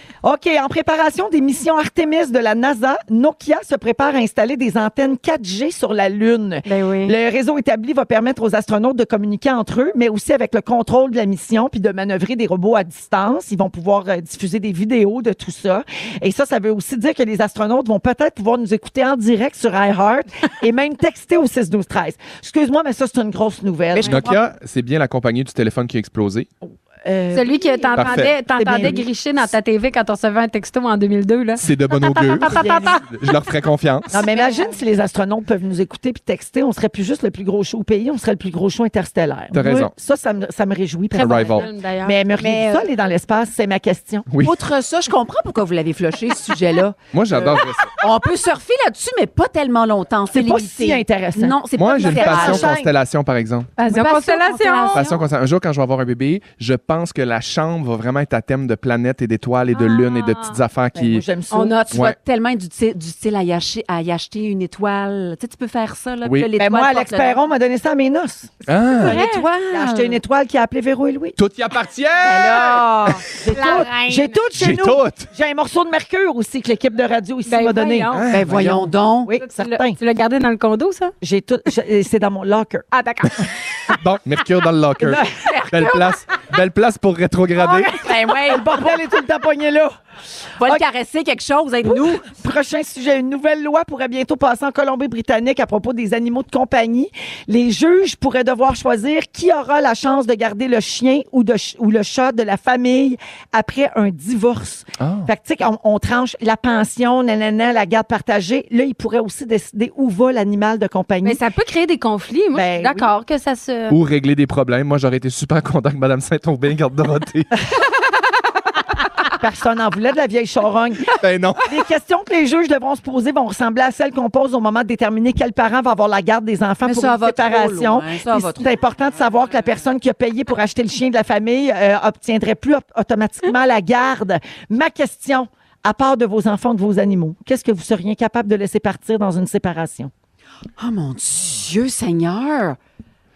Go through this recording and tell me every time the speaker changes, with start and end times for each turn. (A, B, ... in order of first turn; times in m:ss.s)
0:00.2-0:24.2 A
0:06.6-0:07.1 B
0:23.9-0:24.4 C
0:24.0-0:26.5 D
0:26.6-0:29.0 A
0:27.3-0:33.0 B
0:28.0-0:28.3 D
0:31.6-0:34.1 D
0:32.4-0:33.0 A
0:34.1-0:44.2 A
0:34.1-0:34.8 B
0:39.5-0:39.9 D
0:41.1-0:41.7 D
0:41.2-0:42.8 B
0:44.3-0:44.6 D
0:44.4-0:52.7 C
0:47.1-0:47.9 D
0:50.3-0:52.9 A
0:51.7-0:53.7 D
0:53.8-0:55.0 B
0:53.8-0:55.2 C
0:54.9-1:01.2 D
0:59.7-1:00.6 B
1:00.9-1:01.8 A
1:01.5-1:02.0 B
1:01.9-1:02.2 D
1:01.9-1:07.4 C
1:06.2-1:06.5 D
1:06.6-1:08.5 A
1:08.6-1:09.2 D
1:09.0-1:10.2 C
1:09.0-1:09.4 B
1:09.7-1:11.4 A
1:11.4-1:13.2 D
1:12.2-1:13.2 C
1:13.4-1:18.2 A
1:13.5-1:14.4 B
1:14.6-1:15.3 D
1:17.5-1:18.3 B
1:18.1-1:18.9 D
1:18.3-1:19.3 C
1:19.2-1:20.0 A
1:19.4-1:21.1 B
1:21.2-1:22.8 A
1:22.9-1:23.6 B
1:23.9-1:28.0 D
1:25.0-1:25.3 A
1:25.2-1:26.1 C
1:27.5-1:28.9 C
1:28.4-1:29.9 A
1:30.6-1:32.3 C
1:31.8-1:51.4 A
1:45.0-1:45.3 D
1:51.2-1:54.0 B
1:52.5-1:53.1 A
1:53.9-1:57.5 D
1:59.4-2:01.1 A
2:01.1-2:01.7 D
2:01.6-2:20.1 A
2:06.8-2:08.7 C
2:20.8-2:22.8 C